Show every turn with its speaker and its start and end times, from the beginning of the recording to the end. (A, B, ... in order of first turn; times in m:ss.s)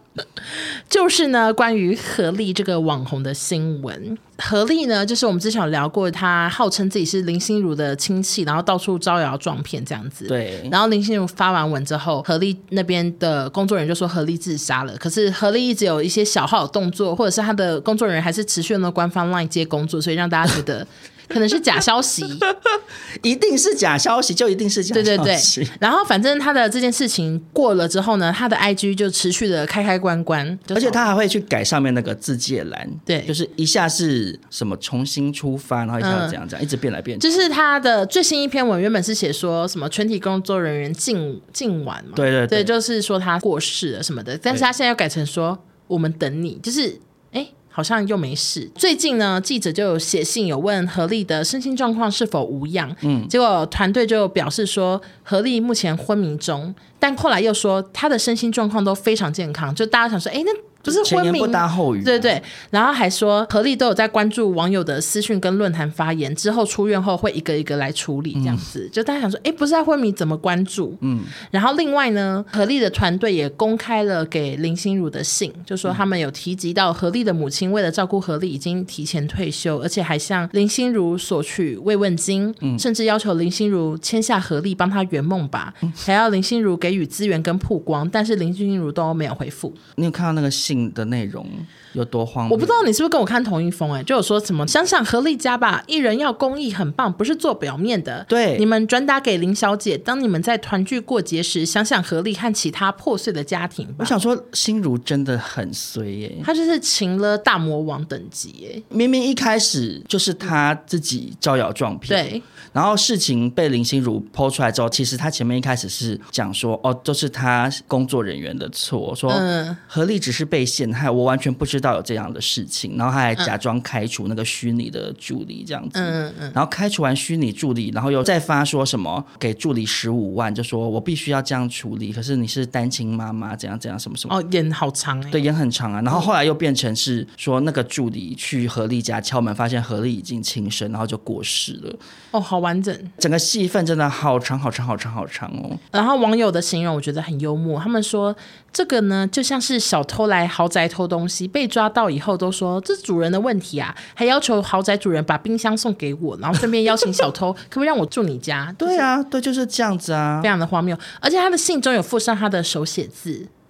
0:00.5-0:22.4 A
0:10.3-0:10.8 B
0:22.5-0:25.8 B
0:24.9-0:31.0 A
0:30.7-0:37.4 B
0:33.1-0:33.3 A
0:36.0-0:36.4 A
0:37.2-1:29.8 A
0:42.1-0:42.7 B
0:53.0-0:53.3 B
1:00.9-1:02.3 B
1:08.4-1:08.6 B
1:11.0-1:11.3 B
1:30.0-1:32.9 B
1:32.5-1:44.1 A
1:38.3-1:38.6 B
1:44.0-1:46.5 B
1:46.4-1:48.8 A
1:48.9-2:14.4 B
1:52.1-1:52.4 A
1:59.3-1:59.8 A
2:05.9-2:06.6 A
2:14.3-2:15.4 A
2:15.3-2:22.0 B
2:22.3-2:23.1 A
2:23.2-2:25.8 B
2:25.9-2:39.1 A
2:38.8-2:40.5 B
2:40.4-2:43.5 A